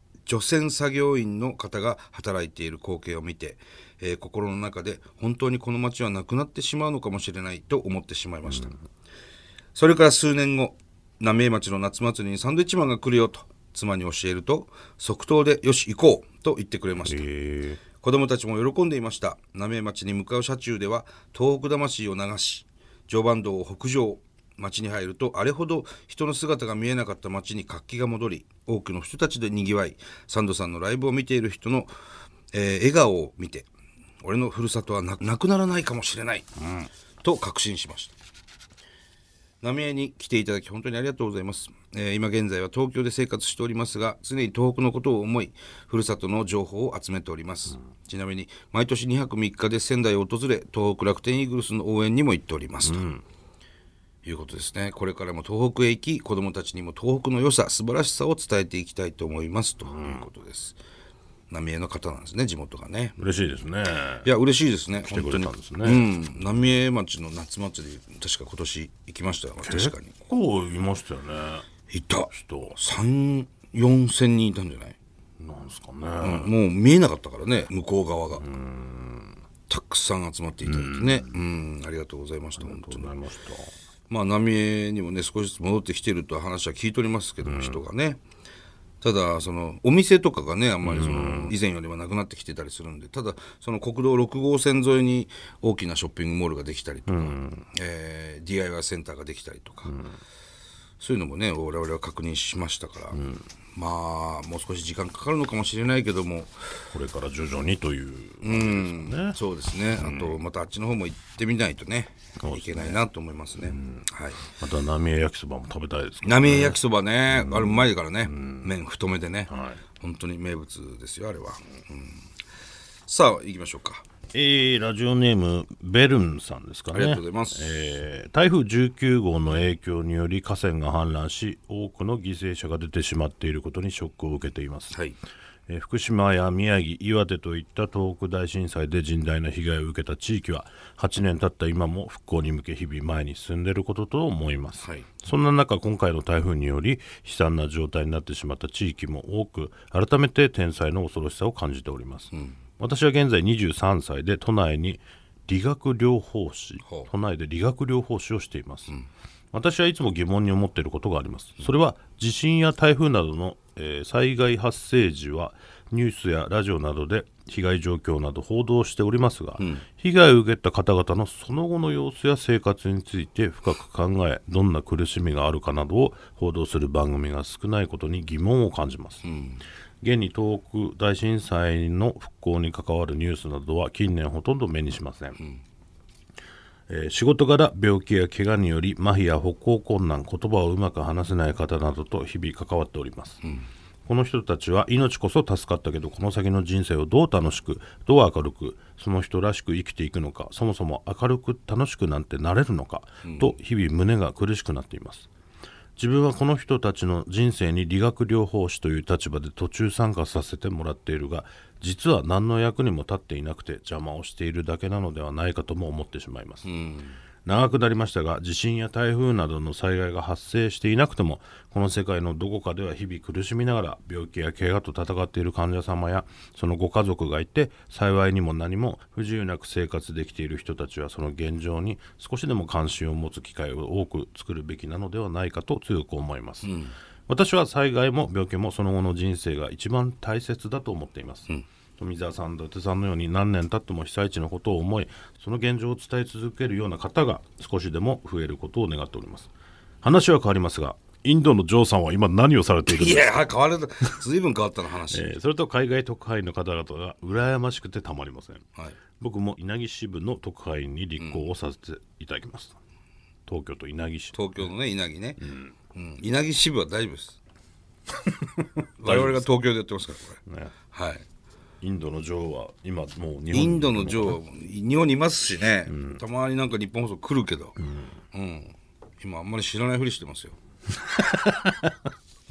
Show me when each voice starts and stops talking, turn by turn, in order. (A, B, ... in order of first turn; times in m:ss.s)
0:00.2-0:08.7 A
0:08.5-0:08.8 B
0:09.7-0:17.2 A
0:17.0-0:17.8 B
0:17.9-0:31.9 A
0:32.5-0:33.7 A
0:34.2-0:38.1 A
0:39.6-0:53.0 A
0:52.8-0:53.2 B
0:54.2-1:00.8 A
0:59.8-1:00.3 B
1:01.5-1:03.2 A
1:03.2-1:04.3 B
1:04.2-1:10.2 A
1:05.1-1:06.1 B
1:09.6-1:11.6 B
1:11.9-1:15.0 A
1:12.3-1:12.8 B
1:15.4-1:16.5 B
1:16.2-1:18.5 A
1:18.4-1:19.4 B
1:19.7-1:23.1 A
1:20.6-1:21.4 B
1:22.6-1:23.7 B
1:24.1-1:28.2 A
1:27.4-1:27.8 B
1:29.0-1:40.0 A
1:30.8-1:31.5 B
1:37.1-1:37.7 B
1:39.9-1:40.1 B
1:41.0-1:43.2 A
1:43.1-1:43.5 B
1:43.7-1:46.6 A
1:46.9-1:49.4 B
1:48.4-1:54.4 A
1:49.9-1:50.4 B
1:52.4-1:53.0 B
1:53.6-1:56.8 B
1:56.2-2:02.2 A
1:57.3-1:58.7 B
1:59.5-1:59.8 B
2:03.1-2:04.0 A
2:04.3-2:15.0 B
2:06.9-2:08.0 A
2:14.9-2:15.2 A
2:15.7-2:39.0 B
2:24.8-2:25.1 A
2:32.3-2:32.6 A
2:39.5-2:59.2 B
2:49.6-2:49.8 A
2:59.2-2:59.6 A
3:00.0-3:05.4 B
3:06.9-3:13.4 B
3:14.0-3:25.3 B
3:23.2-3:23.5 A
3:26.0-3:36.7 B
3:36.6-3:37.2 A
3:37.4-3:56.8 B
3:56.6-3:56.9 A
3:57.3-4:09.5 B
4:10.0-4:13.4 B
4:12.9-4:15.4 A
4:15.1-4:18.7 B
4:19.2-4:22.8 B
4:23.5-4:24.6 B
4:24.3-4:25.4 A
4:25.4-4:25.7 B
4:25.9-4:27.4 A
4:28.2-4:29.5 B
4:29.0-4:31.2 A
4:30.4-4:30.8 B
4:31.8-4:34.4 B
4:33.5-4:37.8 A
4:35.9-4:36.2 B
4:37.8-4:38.1 B
4:38.3-4:40.6 A
4:41.0-4:41.9 B